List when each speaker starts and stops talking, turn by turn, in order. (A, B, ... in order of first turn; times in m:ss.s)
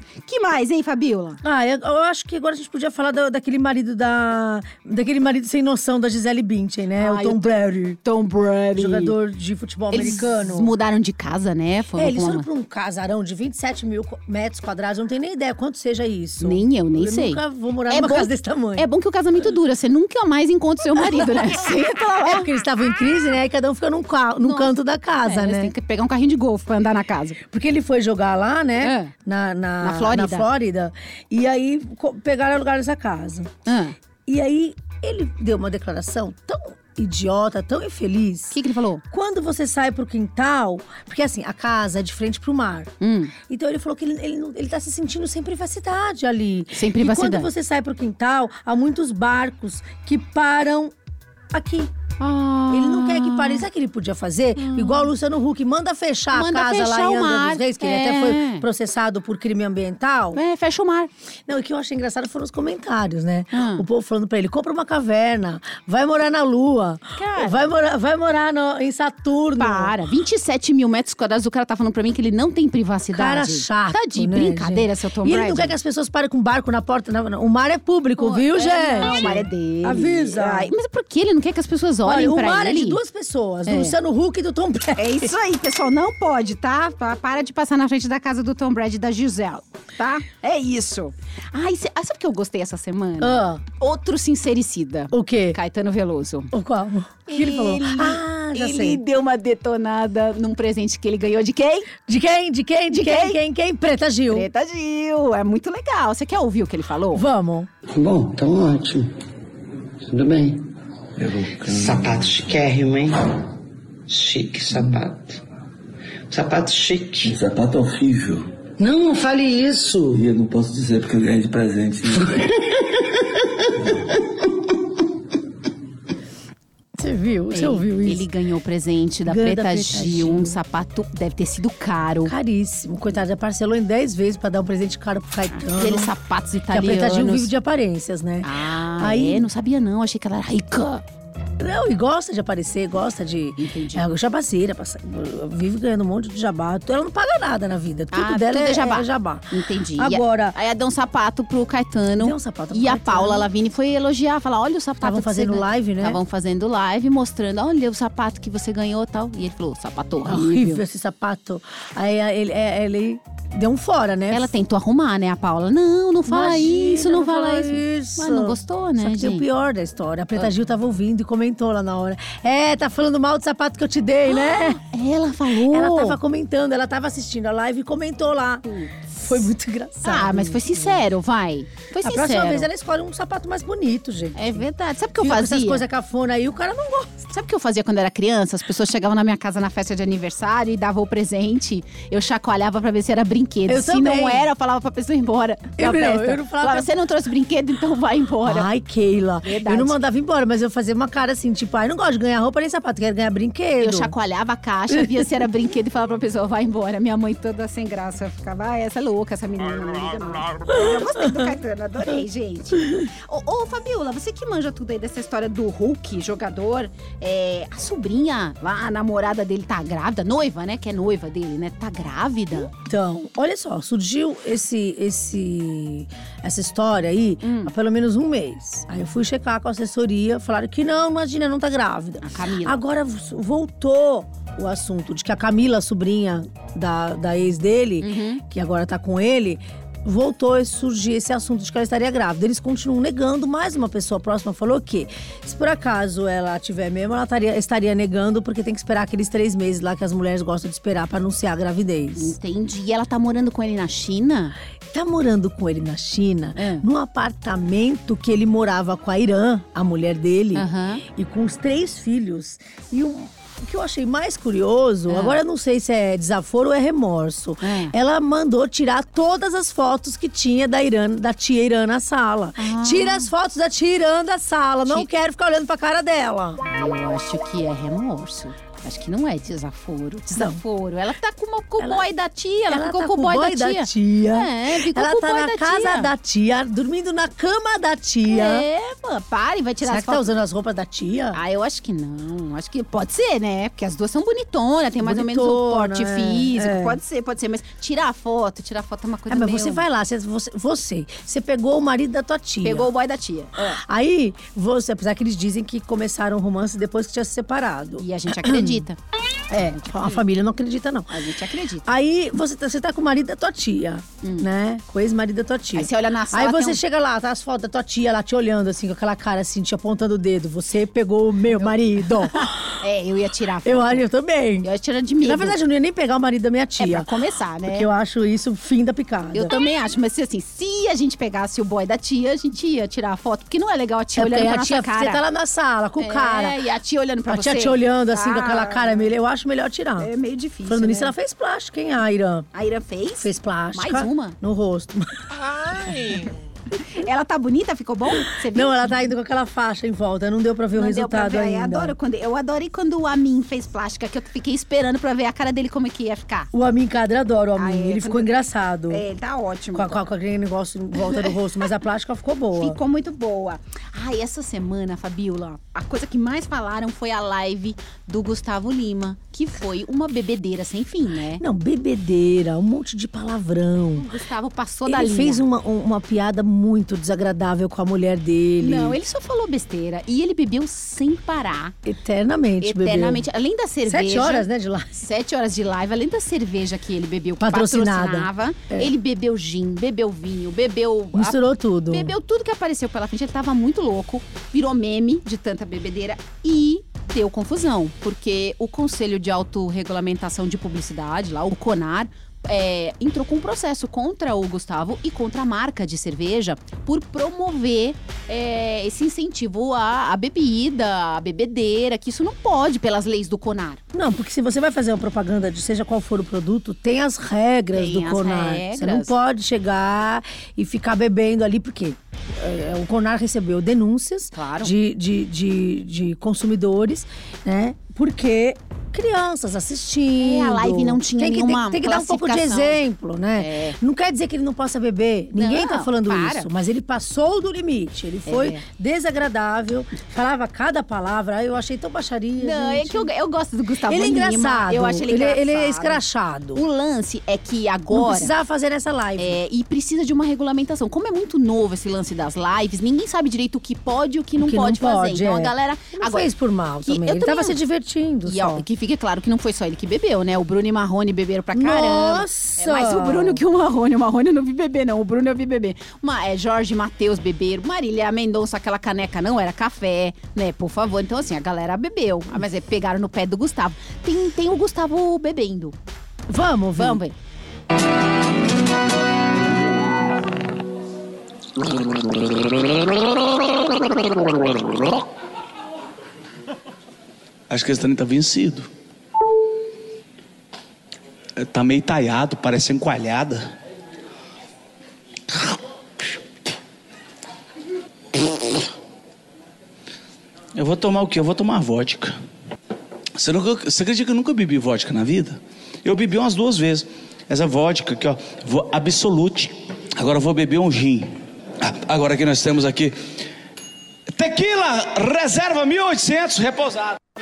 0:00.2-0:01.4 A
0:01.4-0:08.0 B
0:07.0-0:07.5 A
0:08.0-0:09.1 A
0:08.8-0:10.7 B
0:09.9-0:12.5 A
0:11.9-0:18.9 B
0:16.4-0:22.5 A
0:21.2-0:21.4 B
0:22.2-0:25.7 B
0:24.4-0:27.4 A
0:27.5-0:33.5 B
0:28.8-0:29.1 A
0:29.8-0:30.5 A
0:33.6-0:33.9 A
0:34.3-0:38.6 B
0:38.5-0:39.0 A
0:39.1-0:50.9 B
0:43.0-0:43.3 A
0:46.7-0:47.5 A
0:51.5-0:51.9 B
0:52.2-0:53.6 A
0:52.7-1:00.4 B
0:54.6-0:55.1 A
0:56.3-0:58.6 A
1:00.3-1:01.1 A
1:01.5-1:09.9 B
1:03.5-1:03.8 A
1:07.2-1:07.6 A
1:09.6-1:15.7 A
1:13.1-1:20.7 B
1:18.2-1:23.0 A
1:22.0-1:25.3 B
1:23.7-1:24.0 A
1:25.0-1:36.5 A
1:33.2-1:33.6 B
1:35.1-1:35.6 B
1:36.5-1:39.0 B
1:37.3-1:41.9 A
1:42.1-1:44.5 B
1:42.9-1:43.4 A
1:44.3-1:47.2 A
1:47.1-1:47.7 B
1:47.9-1:49.1 C
1:50.1-1:50.6 C
1:51.2-1:52.5 D
1:51.6-1:53.4 C
1:54.1-1:55.4 C
1:56.3-1:57.4 C
1:57.2-1:58.4 D
1:58.8-2:00.2 C
2:00.1-2:02.5 D
2:02.2-2:02.7 C
2:07.0-2:08.2 B
2:07.5-2:12.3 A
2:09.2-2:10.6 B
2:12.2-2:16.1 B
2:15.6-2:17.5 A
2:16.7-2:19.5 B
2:18.4-2:21.0 A
2:21.6-2:30.6 B
2:23.6-2:24.1 A
2:28.1-2:40.8 A
2:32.2-2:33.5 B
2:35.0-2:36.2 B
2:40.2-2:44.5 B
2:44.3-2:49.4 A
2:46.3-2:54.8 B
2:54.3-2:56.2 A
2:55.5-3:01.0 B
2:58.7-2:59.2 A
3:00.0-3:02.7 A
3:02.0-3:04.6 B
3:04.3-3:05.8 A
3:05.2-3:07.2 B
3:07.3-3:18.7 A
3:13.7-3:14.5 B
3:15.8-3:16.9 B
3:18.4-3:24.1 B
3:19.4-3:20.0 A
3:23.8-3:42.7 A
3:42.7-4:12.3 B
3:47.4-3:47.7 A
3:52.2-3:52.8 A
3:58.0-3:58.4 A
4:12.2-4:14.5 A
4:14.9-4:36.6 B
4:16.6-4:16.8 A
4:20.5-4:21.0 A
4:25.1-4:25.4 A
4:27.6-4:27.9 A
4:32.6-4:33.3 A
4:36.7-4:46.1 A
4:40.3-4:40.6 B
4:41.8-4:42.1 B
4:42.7-4:48.6 B
4:48.3-4:50.3 A
4:49.8-4:51.4 B
4:51.3-4:59.8 A
4:55.0-4:57.0 B
4:59.3-5:02.9 B
5:02.6-5:03.8 A
5:03.6-5:08.8 B
5:08.0-5:09.0 A
5:09.5-5:11.1 B
5:11.1-5:11.9 A
5:11.8-5:22.8 B
5:14.2-5:14.5 A
5:15.7-5:16.8 A
5:21.6-5:24.0 A
5:23.6-5:24.7 B
5:24.6-5:25.6 A
5:25.2-5:27.1 B
5:26.8-5:27.9 A
5:27.6-5:29.5 B
5:29.3-5:35.2 A
5:34.2-5:36.6 B
5:36.0-5:39.1 A
5:37.3-5:40.1 B
5:40.0-5:41.1 A
5:40.6-5:42.5 B
5:42.5-5:44.4 A
5:43.2-5:45.2 B
5:46.0-5:46.2 A
5:46.8-5:48.8 A
5:48.4-5:52.0 B
5:50.7-5:56.5 A
5:56.5-5:59.0 B
5:57.6-5:58.3 A
5:58.9-6:00.0 A
5:59.7-6:02.8 B
6:01.0-6:01.3 A
6:02.5-6:11.4 A
6:11.4-6:14.1 B
6:14.0-6:15.4 A
6:14.9-6:19.0 B
6:18.6-6:21.7 A
6:21.8-6:23.2 B
6:22.6-6:24.5 A
6:23.8-6:25.0 B
6:25.0-6:53.8 A
6:27.4-6:28.9 B
6:31.1-6:32.1 B
6:53.9-7:23.1 B
6:57.7-6:59.1 A
7:04.3-7:04.7 A
7:10.2-7:12.8 A
7:13.4-7:13.8 A
7:15.4-7:16.5 A
7:18.2-7:18.6 A
7:22.4-7:26.0 A
7:23.8-7:26.6 B
7:26.5-7:28.3 A
7:27.9-7:29.4 B
7:29.2-7:36.3 A
7:34.4-7:38.6 B
7:36.8-7:37.6 A
7:38.2-7:55.7 A
7:41.5-7:43.4 B
7:56.3-7:57.0 B
7:56.8-7:57.2 A
8:04.6-8:04.9 E
8:07.5-8:08.7 E
8:11.4-8:13.5 E
8:20.5-8:22.1 E
8:23.2-8:33.1 E
8:34.1-8:37.0 E